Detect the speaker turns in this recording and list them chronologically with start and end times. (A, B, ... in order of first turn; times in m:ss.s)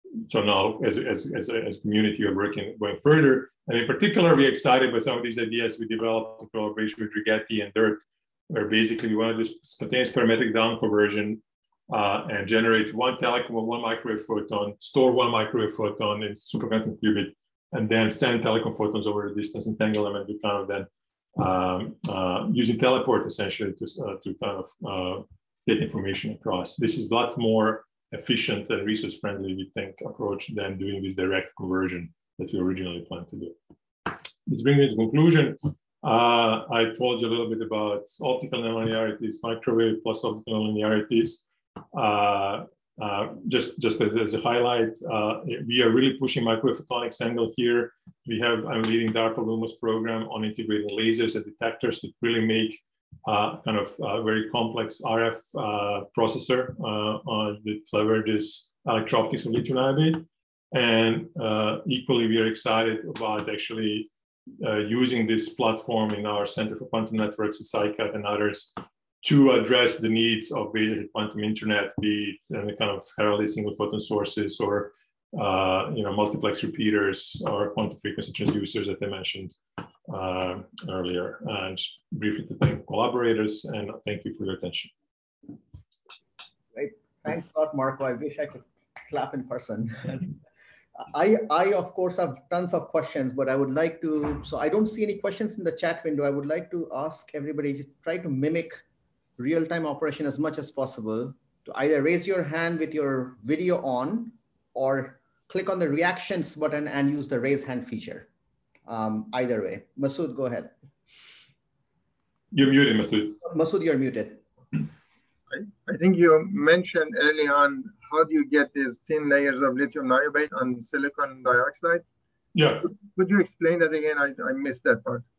0:00.3-0:33.5 A
0:34.5-1:04.1 A
1:04.6-1:24.9 A
1:26.7-1:30.3 B
1:31.0-1:38.8 B
1:39.4-1:48.3 B
1:48.8-1:50.7 B
1:52.5-1:53.4 A
1:53.4-1:54.4 B
1:55.5-2:02.0 C
2:02.5-2:02.9 A
2:02.8-2:05.2 C